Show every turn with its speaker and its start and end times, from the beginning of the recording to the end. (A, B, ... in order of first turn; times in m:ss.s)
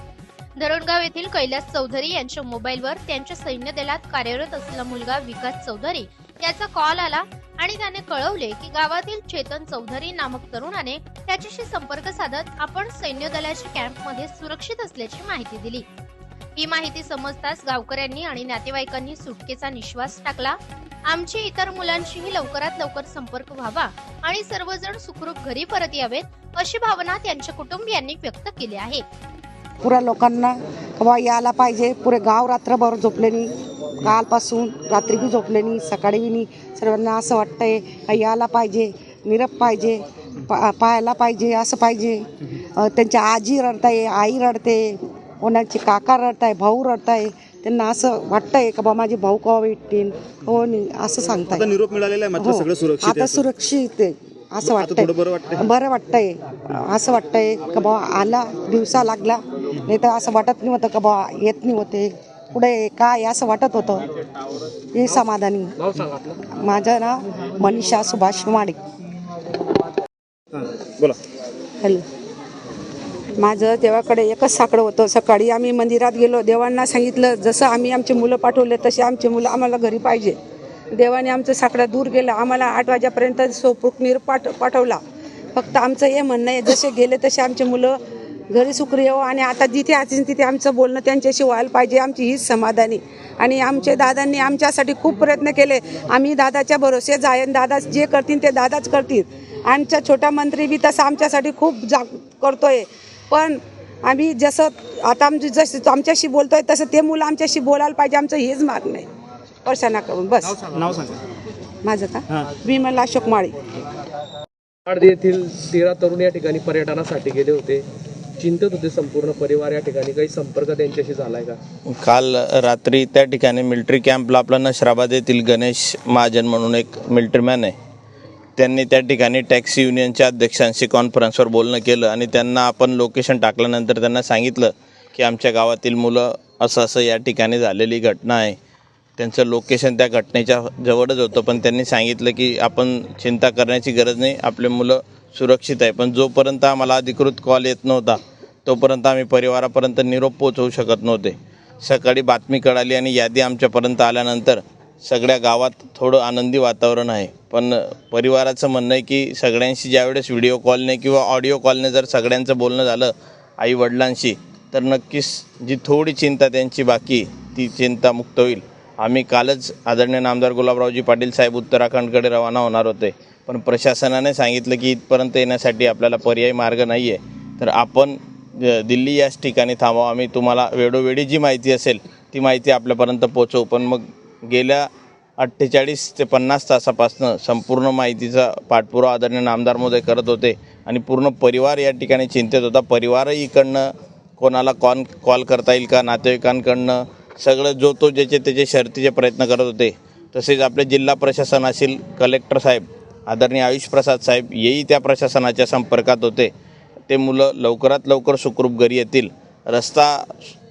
0:00.6-0:15.8 A
0:16.6-0:29.0 A
0:29.8-0:33.5 B
0:34.0-0:42.2 B
0:42.8-0:51.7 B
0:51.7-0:53.4 C
0:52.3-1:04.0 B
0:54.8-0:55.6 C
1:04.9-1:05.8 B
1:05.8-1:06.4 D
1:06.4-1:08.8 B
1:13.4-1:20.4 E
1:20.9-1:25.0 E
1:25.5-1:28.0 E
1:28.5-1:49.1 E
1:49.6-1:50.6 E
1:50.8-1:51.2 C
1:51.8-1:53.6 E
1:54.9-1:57.8 D
1:58.4-2:01.6 D
2:01.9-2:07.7 F
2:08.6-2:18.6 F
2:19.2-3:04.8 F
3:05.4-3:13.9 F
3:14.4-3:26.5 F
3:27.1-3:30.5 F